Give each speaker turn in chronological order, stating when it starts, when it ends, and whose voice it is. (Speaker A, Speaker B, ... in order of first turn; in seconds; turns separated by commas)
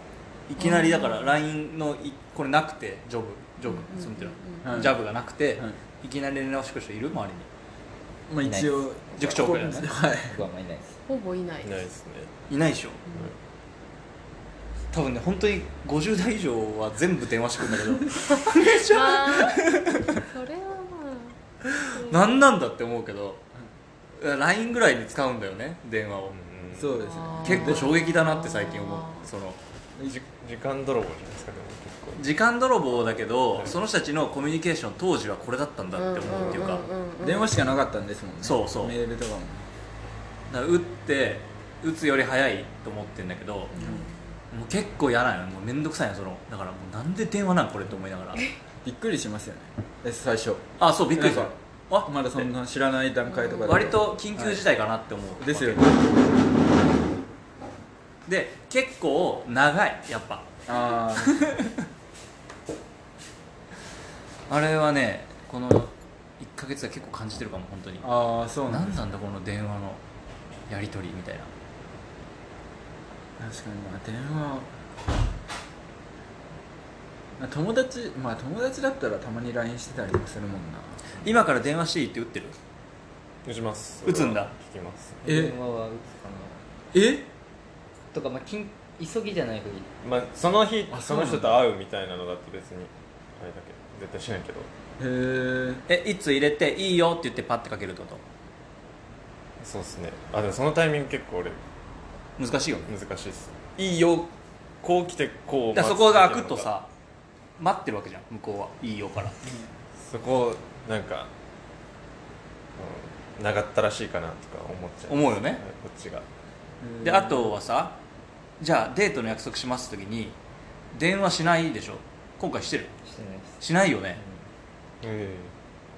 Speaker A: 0.5-7.5, Speaker B: 0.6-1.3, Speaker B: 3.7-4.7, Speaker C: 4.6-5.0, Speaker C: 8.3-10.4, Speaker D: 8.4-8.8, Speaker A: 9.2-9.9, Speaker D: 9.4-11.0, Speaker B: 11.1-11.8, Speaker E: 11.6-12.3, Speaker A: 12.5-13.0, Speaker A: 14.9-20.2, Speaker B: 18.6-22.2, Speaker A: 21.9-23.4, Speaker A: 24.2-26.4, Speaker E: 26.3-27.0, Speaker C: 26.8-27.9, Speaker B: 26.9-29.2, Speaker A: 27.4-29.6, Speaker E: 30.0-32.2, Speaker A: 32.1-36.9, Speaker B: 35.9-37.5, Speaker C: 37.2-39.7, Speaker A: 38.4-39.0, Speaker A: 40.5-43.7, Speaker B: 43.7-44.2, Speaker C: 43.8-44.0, Speaker A: 44.5-48.4, Speaker C: 48.8-54.6, Speaker A: 50.8-52.5, Speaker B: 53.3-53.6, Speaker A: 53.6-55.9, Speaker C: 55.4-56.1, Speaker A: 58.2-60.5, Speaker C: 60.7-61.5, Speaker A: 61.2-61.6, Speaker A: 64.5-68.1, Speaker C: 68.0-69.0, Speaker A: 68.7-70.0, Speaker A: 70.7-71.5, Speaker C: 73.4-74.7, Speaker C: 77.4-81.0, Speaker A: 81.2-82.5, Speaker E: 83.4-85.2, Speaker A: 84.0-84.5, Speaker D: 85.2-86.6, Speaker C: 85.2-85.5, Speaker C: 86.9-87.3, Speaker D: 88.1-89.9, Speaker E: 90.0-94.7, Speaker C: 90.9-91.5, Speaker C: 95.0-95.8, Speaker A: 95.9-98.2, Speaker E: 99.6-101.6, Speaker A: 102.4-102.9, Speaker E: 102.9-106.7, Speaker A: 105.7-106.9, Speaker A: 107.6-109.4, Speaker C: 109.4-109.7, Speaker E: 110.0-111.3, Speaker E: 112.8-116.2, Speaker A: 115.1-115.6, Speaker C: 116.8-117.5, Speaker A: 117.0-118.0, Speaker A: 118.6-120.4, Speaker A: 120.9-122.9, Speaker D: 123.0-123.6, Speaker A: 123.6-124.2, Speaker D: 124.2-124.4, Speaker E: 125.0-125.5